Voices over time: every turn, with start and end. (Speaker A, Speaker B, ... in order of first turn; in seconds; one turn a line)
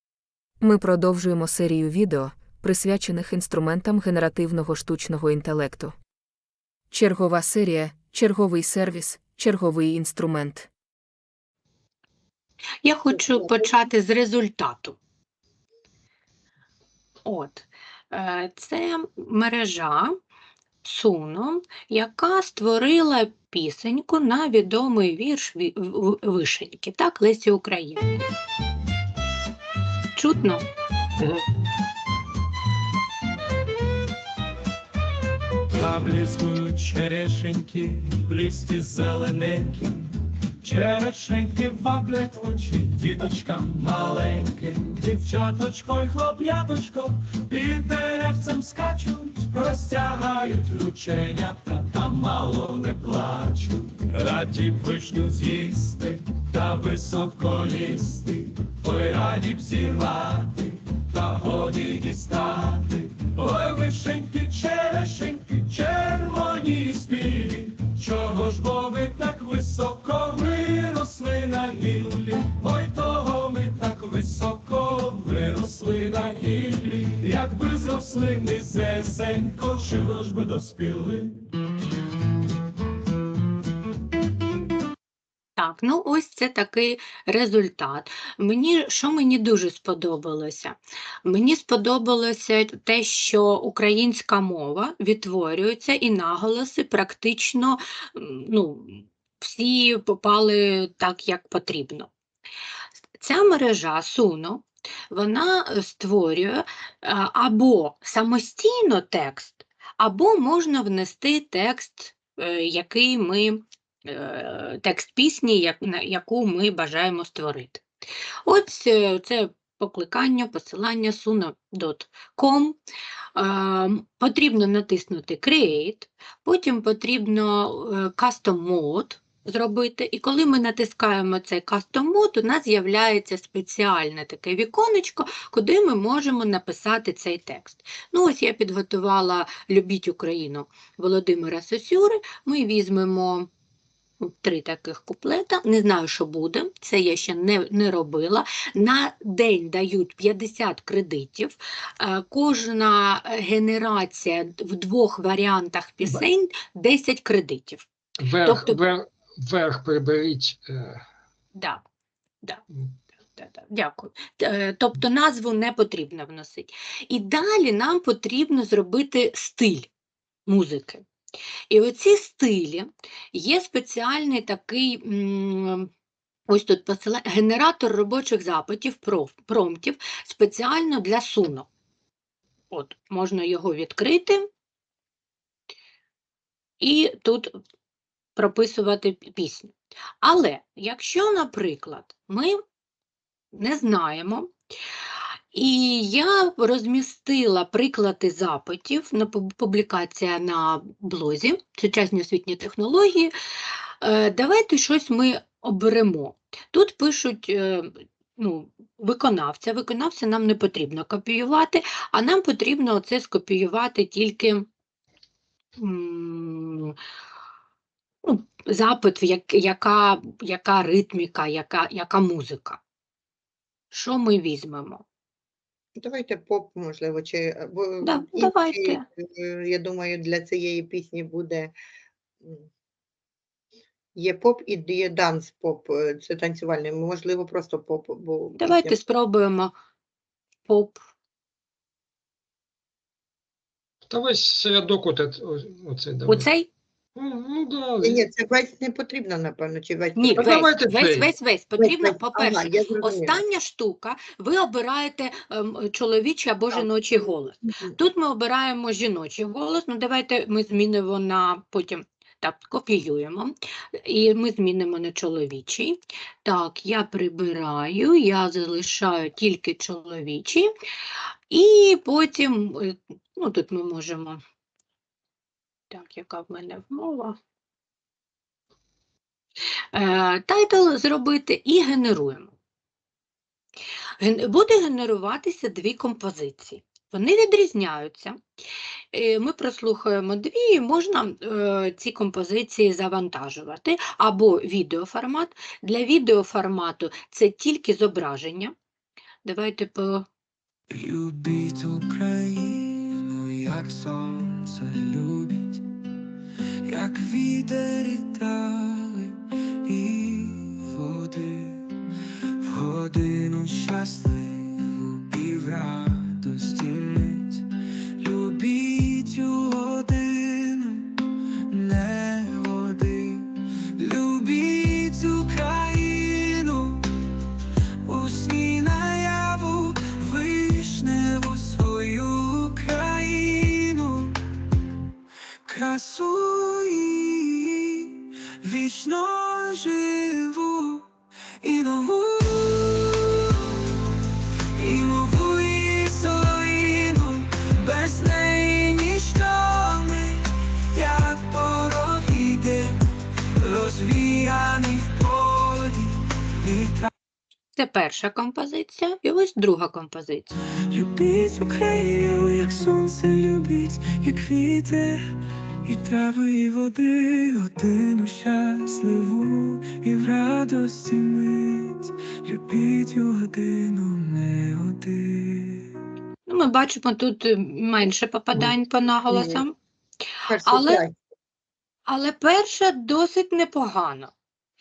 Speaker A: 0.6-6.0
Speaker A: 6.9-10.7
Speaker B: 12.8-15.0
Speaker B: 17.2-20.1
Speaker B: 20.8-28.1
Speaker B: 30.1-30.6
Speaker C: 35.7-81.5
Speaker B: 85.6-102.1
Speaker B: 103.2-117.8
Speaker B: 118.5-122.8
Speaker B: 123.4-143.5
Speaker B: 144.2-157.9
Speaker D: 158.2-161.0
Speaker B: 158.5-158.8
Speaker B: 161.6-161.8
Speaker B: 163.3-169.9
Speaker B: 170.5-171.1
Speaker B: 171.7-175.9
Speaker B: 176.5-181.7
Speaker B: 182.7-184.5
Speaker B: 186.8-187.6
Speaker B: 188.4-192.6
Speaker B: 193.5-194.5
Speaker B: 195.5-203.3
Speaker B: 204.0-214.7
Speaker B: 215.8-217.0
Speaker B: 218.2-222.8
Speaker B: 223.9-225.1
Speaker E: 226.0-231.8
Speaker B: 228.0-229.0
Speaker E: 232.4-232.7
Speaker E: 234.2-238.9
Speaker B: 238.6-239.7
Speaker B: 240.7-241.1
Speaker D: 244.1-246.5
Speaker B: 246.3-246.7
Speaker D: 247.2-248.2
Speaker E: 248.0-250.6
Speaker B: 250.2-270.7
Speaker D: 250.3-251.3
Speaker E: 251.8-253.4
Speaker B: 271.5-274.4
Speaker B: 275.9-277.4
Speaker B: 279.9-282.5
Speaker B: 284.2-288.4
Speaker B: 289.1-298.7
Speaker B: 299.4-300.3
Speaker F: 300.9-305.8
Speaker F: 306.9-311.9
Speaker F: 312.6-317.6
Speaker F: 318.2-327.0
Speaker F: 328.1-334.3
Speaker F: 335.7-341.1
Speaker F: 341.6-343.9
Speaker F: 344.8-350.4
Speaker F: 350.9-352.9
Speaker F: 353.6-357.1
Speaker B: 357.8-360.6
Speaker F: 360.9-365.2
Speaker F: 365.9-375.9
Speaker B: 376.5-379.8
Speaker E: 379.3-379.6
Speaker E: 380.5-381.2
Speaker B: 380.6-381.0
Speaker B: 382.1-384.3